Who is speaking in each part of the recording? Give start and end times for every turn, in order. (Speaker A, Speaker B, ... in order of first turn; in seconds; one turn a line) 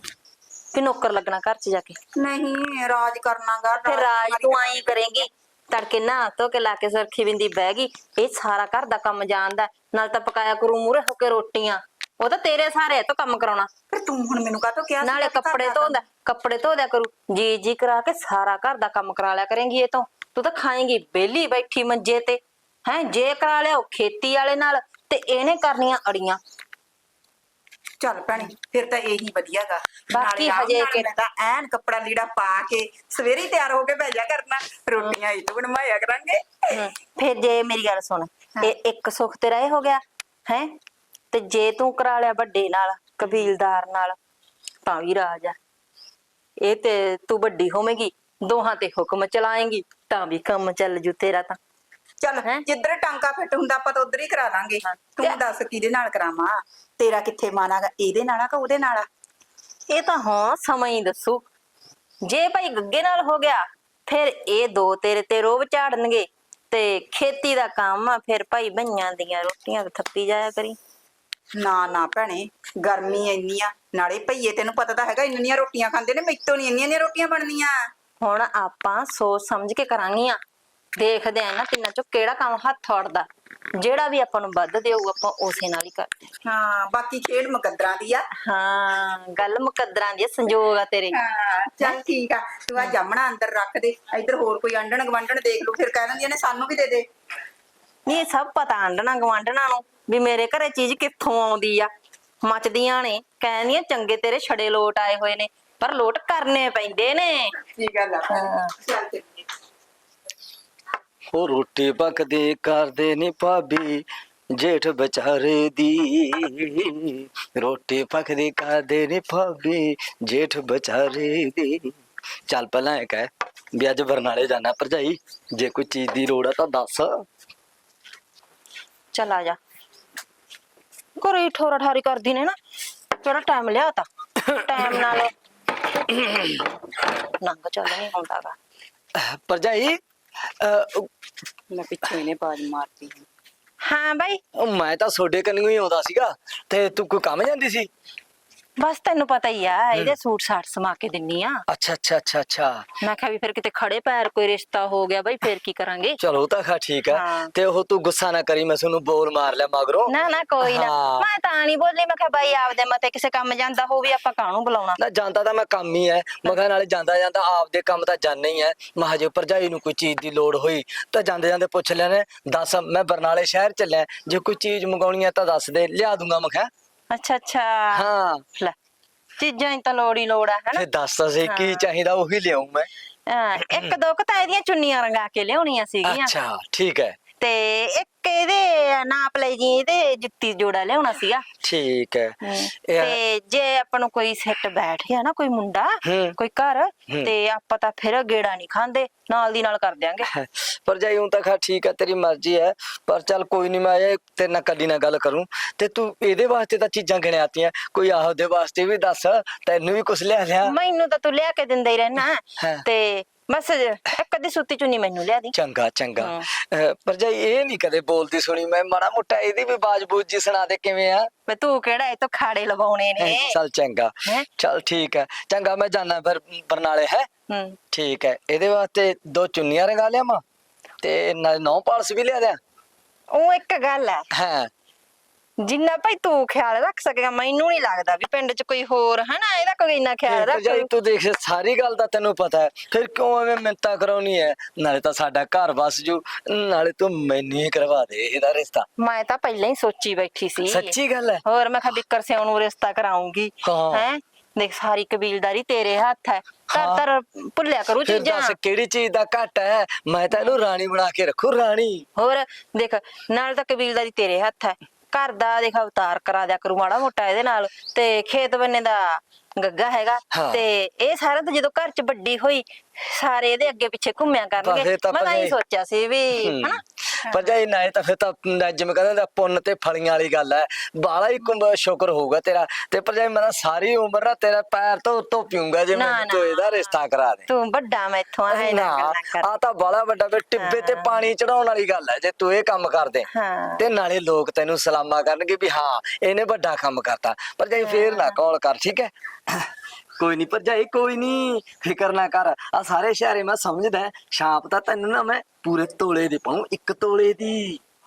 Speaker A: 0.7-2.0
Speaker B: 2.2-4.9
Speaker A: 3.9-13.7
Speaker B: 13.9-15.9
Speaker A: 15.0-26.4
Speaker B: 28.0-36.8
Speaker A: 30.1-31.1
Speaker A: 36.7-40.7
Speaker A: 41.3-44.2
Speaker A: 44.9-45.6
Speaker A: 46.6-51.6
Speaker B: 52.2-59.1
Speaker A: 54.8-55.4
Speaker A: 59.9-61.5
Speaker A: 62.2-70.8
Speaker B: 71.6-77.8
Speaker A: 78.2-80.4
Speaker A: 81.0-83.3
Speaker A: 83.8-86.1
Speaker B: 86.5-88.3
Speaker A: 88.4-91.2
Speaker B: 91.1-97.1
Speaker A: 98.1-101.9
Speaker A: 102.4-107.5
Speaker B: 107.8-109.4
Speaker A: 108.3-108.7
Speaker C: 111.3-122.0
Speaker C: 122.5-127.3
Speaker A: 129.1-129.6
Speaker A: 131.2-132.6
Speaker A: 133.2-135.3
Speaker C: 134.4-135.2
Speaker C: 136.1-136.7
Speaker A: 137.2-138.6
Speaker C: 139.2-140.0
Speaker C: 140.6-141.1
Speaker B: 141.7-143.3
Speaker A: 143.8-144.4
Speaker C: 144.5-147.9
Speaker A: 148.8-151.6
Speaker C: 151.7-152.8
Speaker A: 153.0-156.2
Speaker C: 156.2-161.3
Speaker A: 157.1-157.5
Speaker A: 160.1-165.0
Speaker C: 165.0-176.7
Speaker A: 177.1-178.1
Speaker C: 177.9-178.4
Speaker A: 179.4-180.9
Speaker C: 180.8-182.9
Speaker A: 181.4-181.9
Speaker A: 183.3-186.3
Speaker C: 183.6-183.9
Speaker C: 186.1-187.2
Speaker A: 187.4-191.5
Speaker C: 191.6-193.2
Speaker A: 192.4-200.3
Speaker C: 196.1-196.4
Speaker C: 200.3-210.8
Speaker A: 210.6-215.6
Speaker C: 212.6-212.8
Speaker C: 215.6-221.3
Speaker A: 216.2-216.5
Speaker A: 221.5-223.6
Speaker C: 223.2-227.3
Speaker A: 227.5-227.8
Speaker C: 227.9-230.4
Speaker C: 231.0-232.6
Speaker A: 233.3-234.3
Speaker C: 234.3-234.7
Speaker A: 235.6-240.9
Speaker C: 240.3-248.9
Speaker A: 249.0-250.9
Speaker C: 250.7-251.4
Speaker A: 251.4-258.6
Speaker C: 253.6-254.1
Speaker C: 256.7-257.1
Speaker C: 258.0-262.1
Speaker A: 262.2-276.8
Speaker C: 270.3-270.6
Speaker C: 274.6-275.6
Speaker C: 276.4-287.5
Speaker A: 285.9-289.6
Speaker C: 288.5-293.3
Speaker A: 290.6-291.3
Speaker A: 293.3-293.8
Speaker C: 293.8-307.8
Speaker A: 297.8-298.4